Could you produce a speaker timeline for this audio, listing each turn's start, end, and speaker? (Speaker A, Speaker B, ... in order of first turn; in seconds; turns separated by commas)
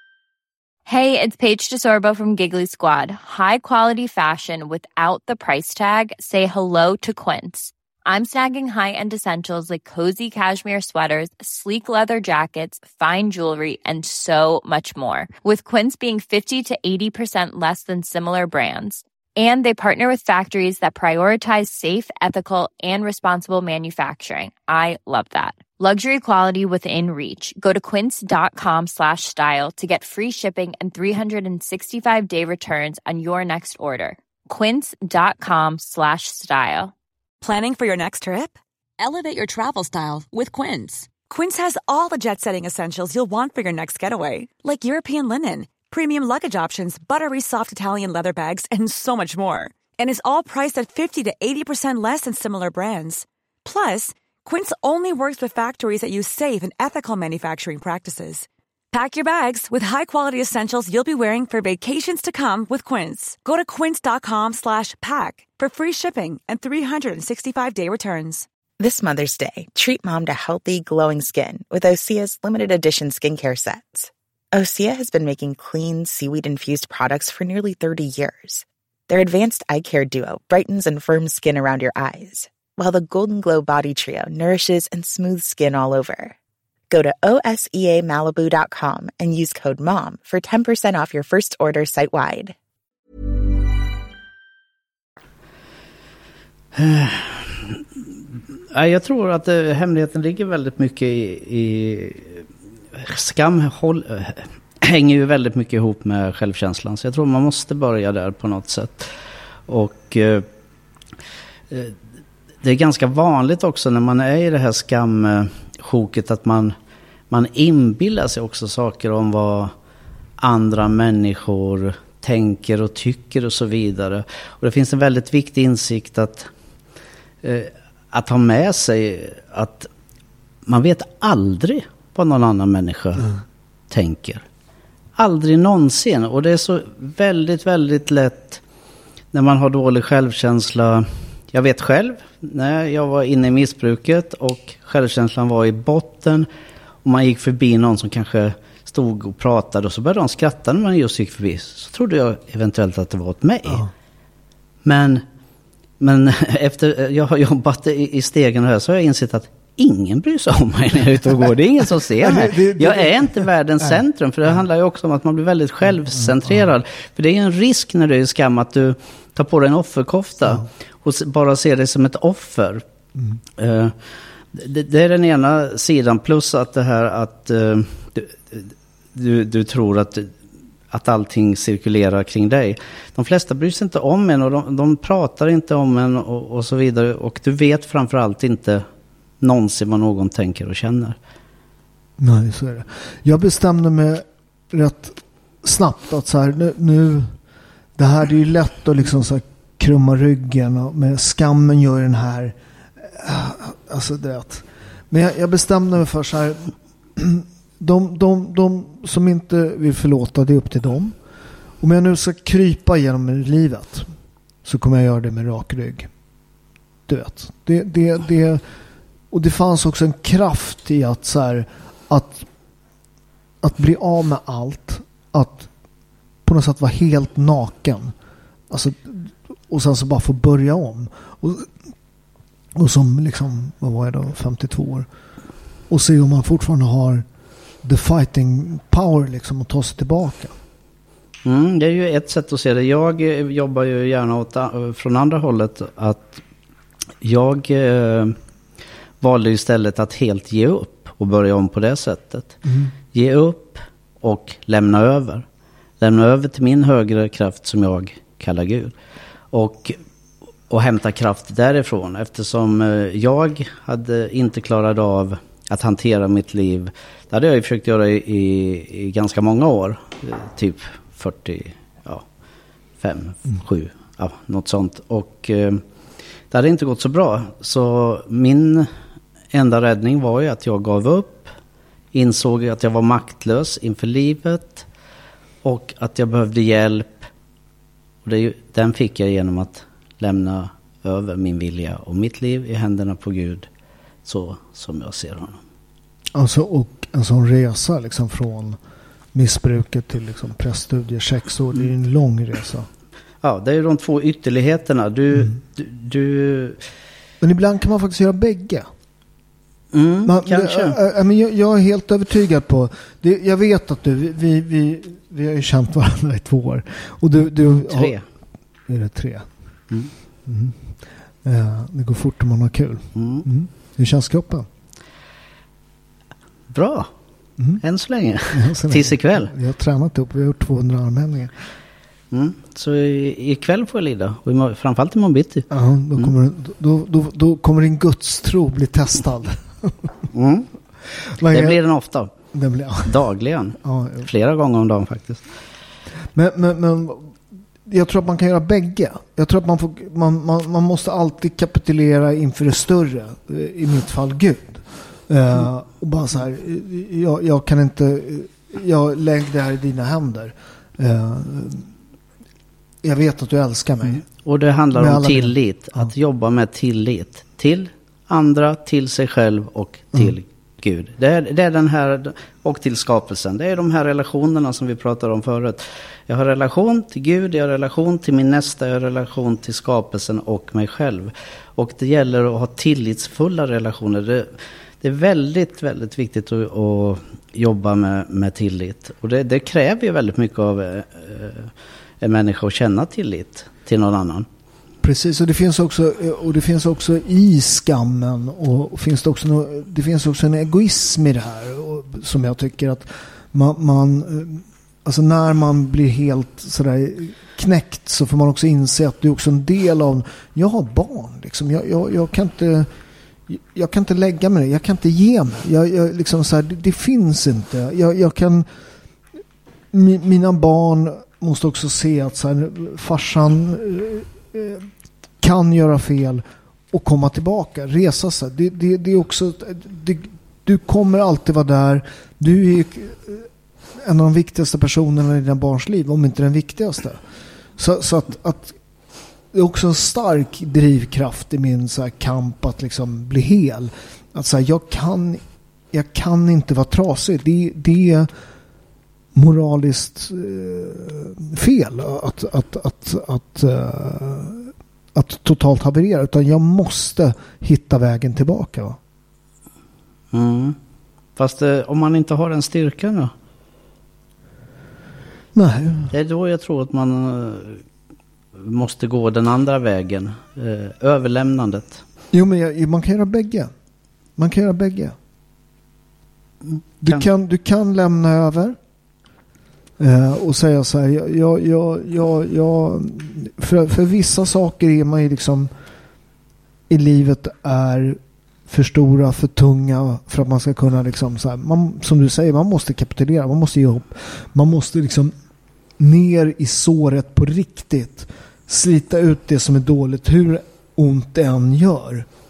Speaker A: 0.9-36.9, Speaker B: 37.4-68.5, Speaker C: 68.8-86.3, Speaker C: 86.9-92.5, Speaker D: 96.7-97.8, Speaker D: 98.7-102.4, Speaker D: 103.0-109.1, Speaker D: 109.7-110.5, Speaker D: 111.7-112.0, Speaker D: 112.6-116.8, Speaker D: 117.3-119.7, Speaker D: 120.4-126.5, Speaker D: 127.4-129.9, Speaker D: 130.7-133.3, Speaker D: 133.9-134.4, Speaker D: 135.2-138.6, Speaker D: 139.3-146.5, Speaker D: 147.0-153.8, Speaker D: 154.8-155.2, Speaker D: 156.0-172.8, Speaker E: 162.2-164.0, Speaker E: 166.1-166.7, Speaker D: 173.6-174.0, Speaker D: 174.5-180.3, Speaker D: 180.9-188.8, Speaker D: 189.4-191.2, Speaker E: 192.2-197.3, Speaker E: 198.0-211.2, Speaker E: 211.8-214.1, Speaker E: 214.6-216.1, Speaker E: 217.1-218.6, Speaker E: 219.3-222.5, Speaker E: 223.6-225.7, Speaker E: 226.4-228.1, Speaker E: 228.7-231.7, Speaker E: 232.8-235.1, Speaker E: 235.9-237.3, Speaker E: 237.8-240.5, Speaker D: 241.4-246.4, Speaker D: 247.2-248.4, Speaker D: 249.2-252.6, Speaker E: 252.7-252.9, Speaker D: 253.1-255.5, Speaker D: 256.0-258.9, Speaker D: 259.5-260.0, Speaker D: 260.7-272.2, Speaker D: 273.0-275.8, Speaker D: 276.5-278.9, Speaker D: 279.5-281.5, Speaker D: 282.1-284.9, Speaker D: 285.6-287.3, Speaker D: 288.2-293.7, Speaker D: 294.2-295.6, Speaker E: 296.3-298.8, Speaker E: 299.3-302.9, Speaker D: 303.4-306.8, Speaker E: 307.4-308.9, Speaker D: 309.9-311.0, Speaker E: 310.2-318.2, Speaker D: 317.9-318.2, Speaker E: 318.9-319.5, Speaker E: 320.5-320.9, Speaker E: 321.4-324.7, Speaker D: 323.1-323.5, Speaker D: 326.7-327.1, Speaker D: 327.8-329.5, Speaker E: 328.5-331.5, Speaker D: 332.3-336.3, Speaker E: 335.7-340.1, Speaker D: 340.3-340.7, Speaker E: 341.2-341.8, Speaker D: 341.5-342.3, Speaker E: 342.5-343.2, Speaker D: 343.0-345.4, Speaker E: 343.8-344.3, Speaker E: 346.3-347.3, Speaker E: 347.9-361.9, Speaker E: 363.0-364.3, Speaker D: 364.4-384.5, Speaker E: 364.9-366.1, Speaker D: 385.0-394.5, Speaker E: 395.0-412.9, Speaker E: 413.5-418.7, Speaker E: 419.9-424.9, Speaker E: 425.4-433.5, Speaker E: 434.0-437.2, Speaker E: 437.8-438.8, Speaker E: 439.5-448.3, Speaker E: 449.3-459.0, Speaker D: 460.3-460.8, Speaker D: 461.4-463.3, Speaker E: 465.5-466.1, Speaker D: 466.1-467.8, Speaker D: 468.6-472.0, Speaker E: 472.3-473.7, Speaker E: 474.4-475.2, Speaker D: 476.7-477.3, Speaker E: 477.0-478.8, Speaker E: 480.0-485.7, Speaker E: 486.9-495.3, Speaker E: 496.0-502.3